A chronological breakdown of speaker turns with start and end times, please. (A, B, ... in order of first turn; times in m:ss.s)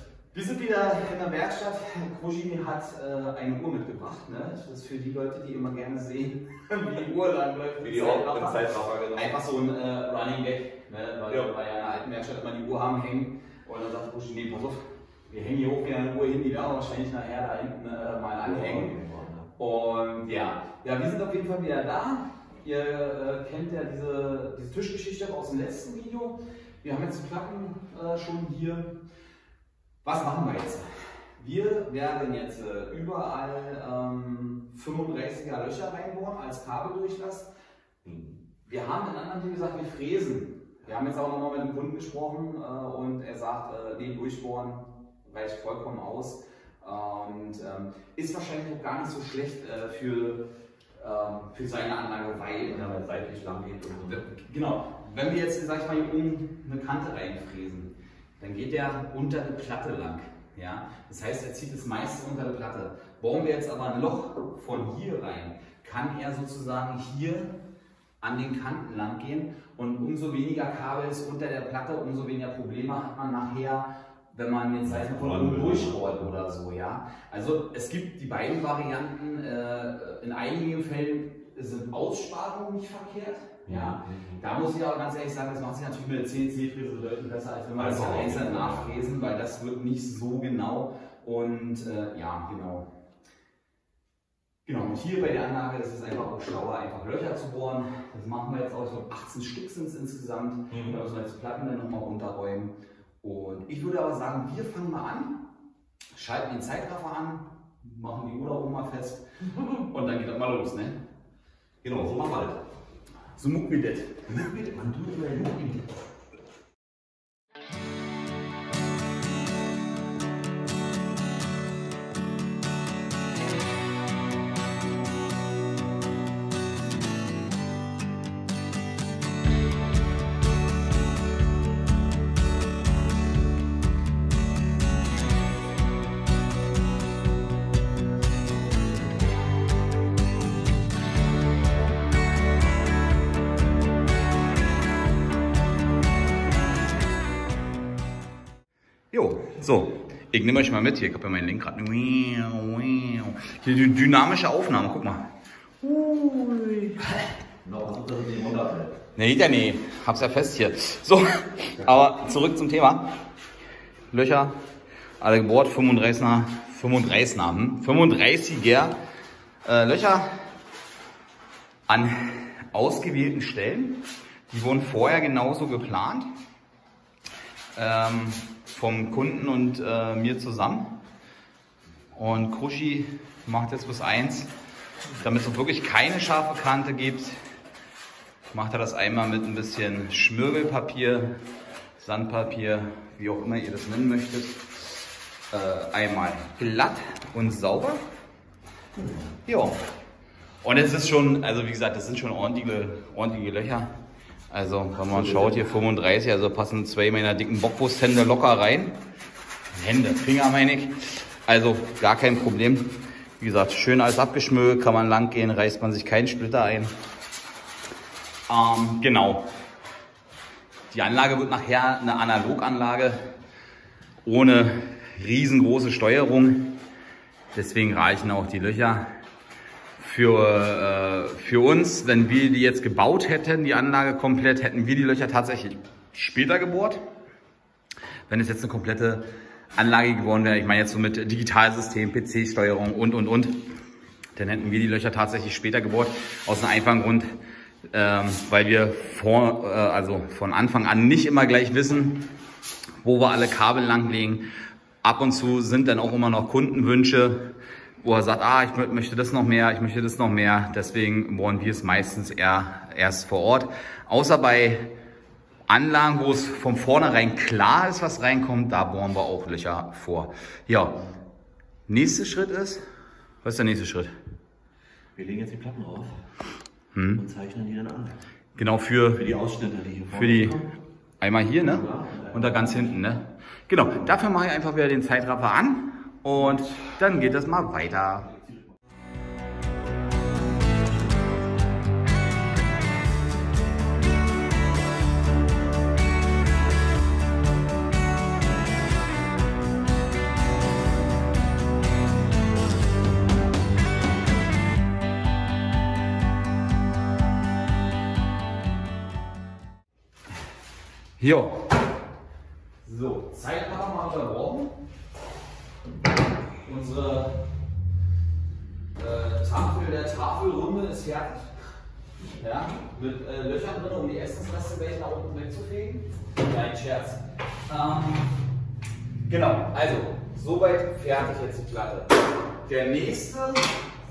0:00.3-0:19.0 A
0:07.8-0:09.3 B
0:18.4-0:19.5 B
0:19.6-0:29.0 A
0:30.0-0:30.8 A
0:31.4-0:37.5 A
0:38.0-0:38.4 B
0:38.6-0:50.4 A
0:51.0-0:53.3 A
0:52.9-0:54.2 B
0:53.9-1:07.5 A
1:08.2-1:32.9 A
1:14.8-1:16.3 B
1:23.6-1:24.4 B
1:27.8-1:28.9 B
1:34.6-1:45.4 A
1:46.1-1:51.0 A
1:51.8-1:52.6 B
1:53.4-1:54.4 A
1:54.3-1:55.9 B
2:29.1-2:35.2 A
2:35.8-2:37.1 A
2:37.6-2:39.0 B
2:39.1-2:43.0 A
2:44.1-2:44.5 A
2:45.2-2:49.0 A
2:49.6-2:50.3 A
2:51.9-2:56.2 A
2:57.7-3:00.9 A
3:02.1-3:04.5 A
3:05.2-3:07.4 A
3:08.5-3:11.4 A
3:12.0-3:15.0 A
3:15.5-3:18.0 A
3:19.4-3:19.8 A
3:20.6-3:23.9 A
3:24.5-3:29.0 A
3:29.7-3:36.9 A
3:38.5-3:39.4 A
3:40.9-3:43.2 A
3:44.2-3:46.8 A
3:47.5-3:49.0 A
3:50.0-3:57.0 A
3:58.3-4:03.6 A
4:04.3-4:07.3 A
4:07.9-4:12.3 A
4:13.0-4:14.4 A
4:15.0-4:17.5 A
4:18.0-4:24.9 A
4:25.7-4:31.1 A
4:31.9-4:32.8 A
4:33.4-4:34.1 A
4:35.2-4:36.1 B
4:36.9-4:37.2 A
4:37.2-4:38.2 B
4:38.6-4:39.2 A
4:39.1-4:40.7 B
4:40.1-4:40.6 A
4:41.2-4:48.3 A
4:41.6-4:42.9 B
5:11.2-5:11.7 A
5:12.8-5:14.8 A
5:16.6-5:17.4 A
5:19.0-5:21.5 A
5:22.4-5:28.3 A
5:29.2-5:32.1 A
5:32.6-5:33.7 A